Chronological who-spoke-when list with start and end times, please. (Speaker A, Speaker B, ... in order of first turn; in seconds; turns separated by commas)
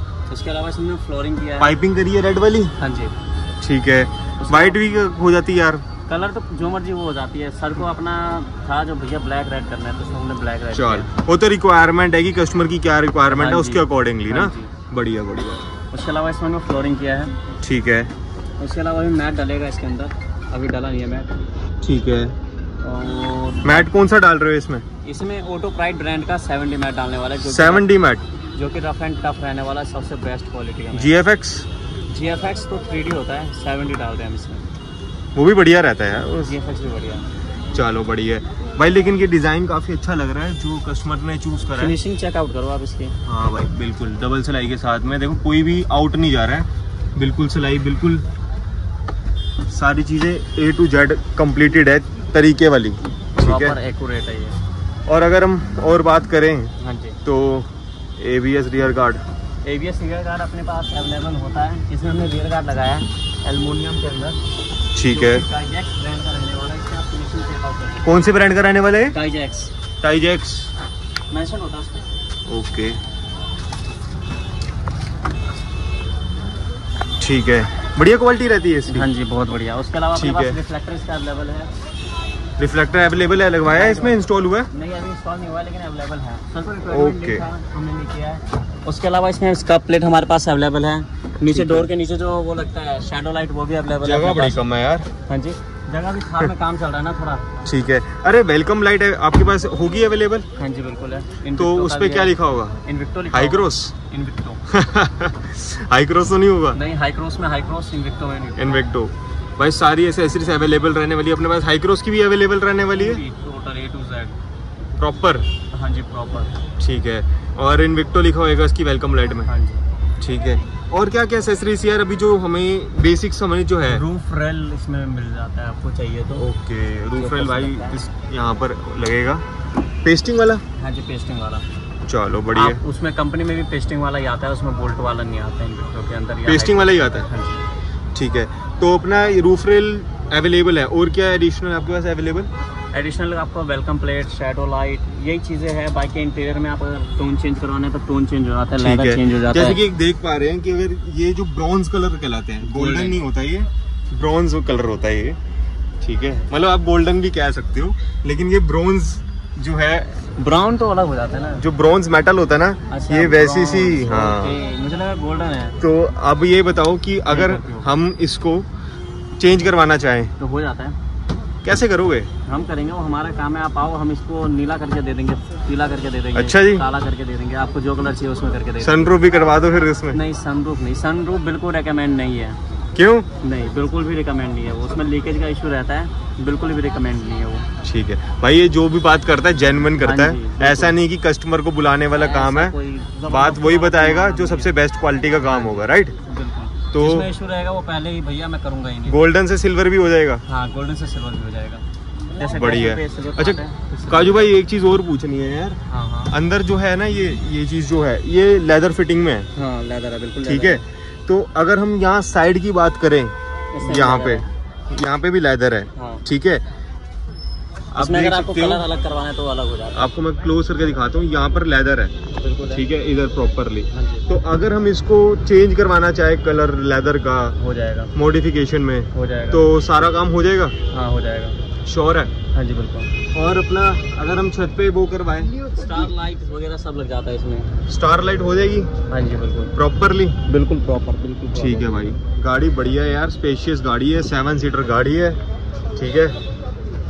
Speaker A: 0.3-1.8, Speaker B: 1.6-2.7, Speaker A: 2.8-3.1, Speaker B: 3.6-5.8, Speaker A: 4.4-4.8, Speaker A: 6.1-11.1, Speaker B: 10.7-15.7, Speaker A: 13.3-14.7, Speaker A: 15.9-17.3, Speaker B: 17.6-18.1, Speaker A: 18.6-21.3, Speaker B: 21.8-22.4, Speaker A: 22.8-23.9, Speaker B: 23.6-24.9, Speaker A: 25.0-27.9, Speaker B: 27.4-28.2, Speaker A: 28.6-31.1, Speaker B: 30.9-31.7, Speaker A: 32.1-34.6, Speaker B: 35.4-36.5, Speaker A: 36.4-37.3, Speaker B: 37.7-42.0, Speaker A: 41.7-43.1, Speaker B: 43.2-48.2, Speaker B: 49.7-53.8, Speaker A: 53.4-54.6, Speaker B: 55.1-56.7, Speaker A: 56.8-57.2, Speaker B: 57.2-59.2, Speaker A: 59.6-64.4, Speaker B: 64.9-65.5, Speaker A: 65.1-68.1, Speaker B: 68.0-69.2, Speaker A: 69.1-69.7, Speaker B: 70.0-70.7, Speaker A: 71.3-72.0, Speaker B: 72.5-73.0, Speaker B: 77.2-79.1, Speaker A: 78.9-81.7, Speaker B: 80.2-80.6, Speaker B: 82.6-84.7, Speaker A: 83.7-84.2, Speaker A: 84.7-94.6, Speaker B: 86.9-87.5, Speaker B: 91.4-91.9, Speaker B: 94.0-95.1, Speaker A: 95.3-97.5, Speaker B: 97.7-100.5, Speaker A: 100.6-104.6, Speaker B: 101.6-102.8, Speaker B: 103.3-103.9, Speaker B: 104.7-106.8, Speaker A: 106.7-108.8, Speaker B: 108.6-113.2, Speaker A: 112.9-114.4, Speaker B: 115.0-115.5, Speaker A: 115.7-116.5, Speaker B: 116.8-119.5, Speaker A: 119.5-119.8, Speaker B: 120.2-124.0, Speaker A: 123.8-126.5, Speaker B: 126.4-129.4, Speaker A: 127.2-128.0, Speaker B: 130.0-130.6, Speaker A: 130.8-131.7, Speaker B: 132.1-132.8, Speaker A: 132.6-137.7, Speaker B: 136.5-137.3, Speaker B: 138.2-142.5, Speaker A: 142.9-149.8, Speaker B: 148.8-155.4, Speaker A: 152.6-153.2, Speaker B: 156.0-160.2, Speaker A: 160.4-161.6, Speaker B: 161.6-164.6, Speaker A: 162.9-165.8, Speaker B: 165.8-168.7, Speaker A: 167.3-167.9, Speaker B: 169.4-170.3, Speaker A: 170.4-170.9, Speaker B: 171.6-172.3, Speaker A: 172.4-179.1, Speaker B: 176.3-176.8, Speaker B: 178.8-180.2, Speaker A: 180.1-182.6, Speaker B: 183.0-183.3, Speaker A: 183.4-187.7, Speaker B: 187.8-192.8, Speaker A: 190.0-190.9, Speaker A: 192.1-194.7, Speaker B: 193.3-196.1, Speaker A: 195.4-199.2, Speaker B: 196.9-197.3, Speaker B: 199.1-200.4, Speaker A: 200.5-204.5, Speaker B: 202.4-205.8, Speaker A: 205.9-206.3, Speaker B: 206.3-209.5, Speaker A: 209.5-210.8, Speaker B: 210.4-216.6, Speaker A: 213.7-214.4, Speaker A: 216.0-216.2, Speaker B: 217.9-218.9, Speaker A: 218.0-220.1, Speaker B: 219.9-222.1, Speaker A: 222.3-222.8, Speaker B: 222.7-227.6, Speaker A: 223.9-224.3, Speaker A: 227.6-228.1, Speaker B: 228.1-230.8, Speaker A: 229.1-229.7, Speaker A: 230.9-231.6, Speaker B: 231.9-232.3, Speaker A: 232.5-233.1, Speaker B: 233.3-235.7, Speaker A: 235.7-237.7, Speaker B: 237.9-238.9, Speaker A: 239.1-239.7, Speaker B: 239.8-240.4, Speaker A: 240.5-242.1, Speaker B: 241.5-245.4, Speaker B: 246.0-246.4